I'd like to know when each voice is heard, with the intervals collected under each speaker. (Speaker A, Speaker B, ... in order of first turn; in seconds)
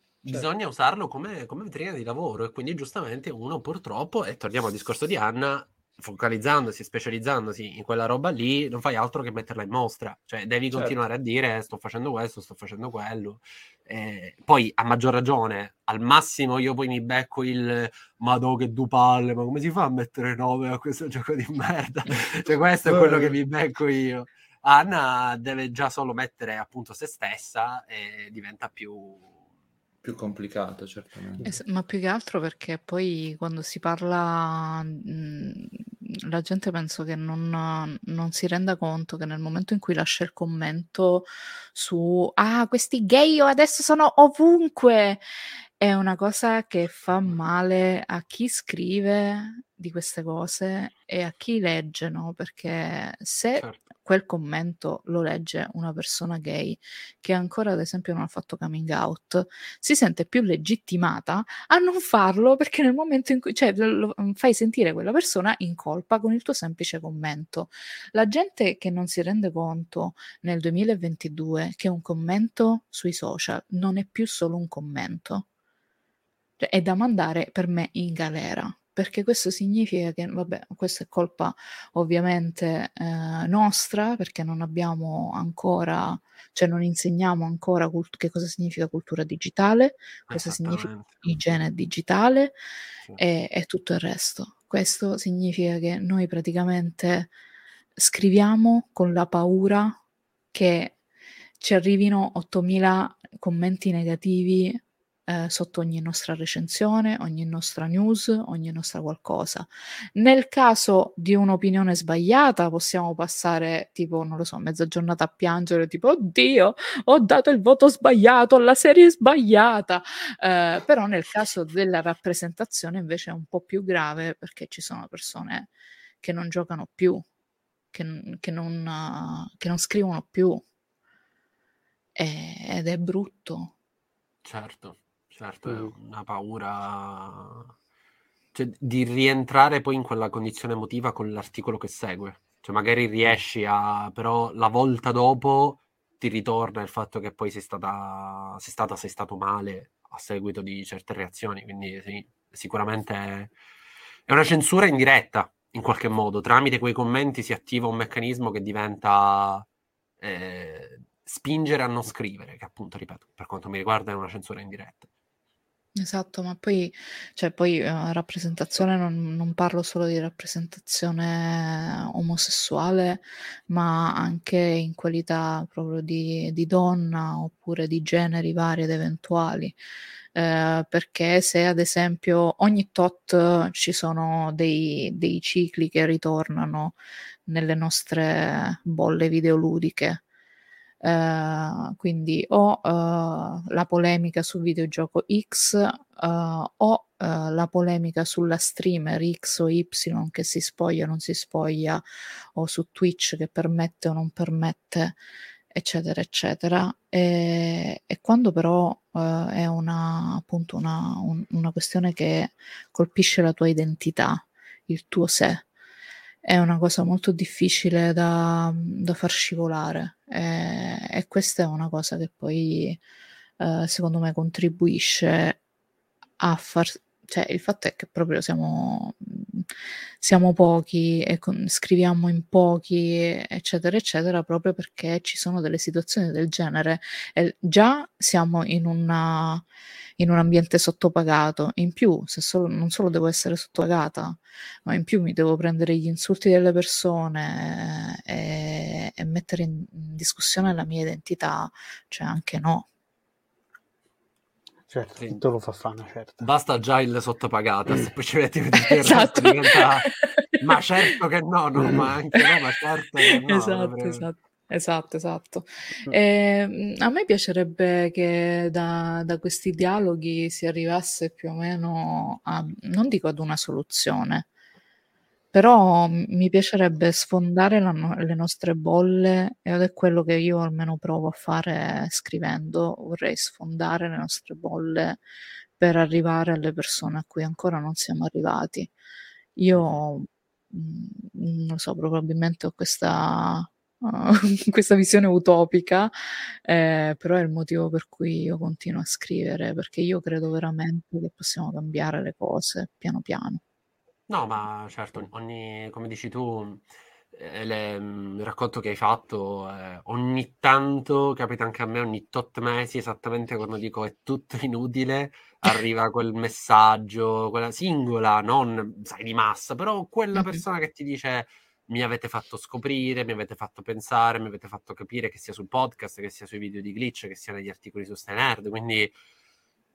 Speaker A: 0.2-29.3, 90.3-91.1, 134.4-137.7, 138.5-153.5, 154.3-159.7, 160.2-165.1, 255.2-255.4, 256.4-264.3, 304.3-329.1
Speaker B: 22.9-23.4, 30.0-31.4
Speaker C: 31.4-45.2, 45.8-75.5, 76.6-92.6, 93.2-97.3, 98.0-100.0, 100.5-101.0, 101.6-125.7, 126.2-127.3, 127.9-130.6, 132.2-133.7, 166.0-179.8, 180.3-190.2, 191.0-202.0, 202.6-205.2, 205.7-215.7, 216.4-223.0, 223.6-225.6, 226.4-229.7, 230.2-239.7, 240.2-252.9, 258.8-261.1, 262.3-262.6, 263.3-274.5, 275.5-285.2, 285.8-288.9, 289.6-303.6, 320.4-320.6
Speaker D: 135.7-135.9, 254.9-256.5, 261.8-262.1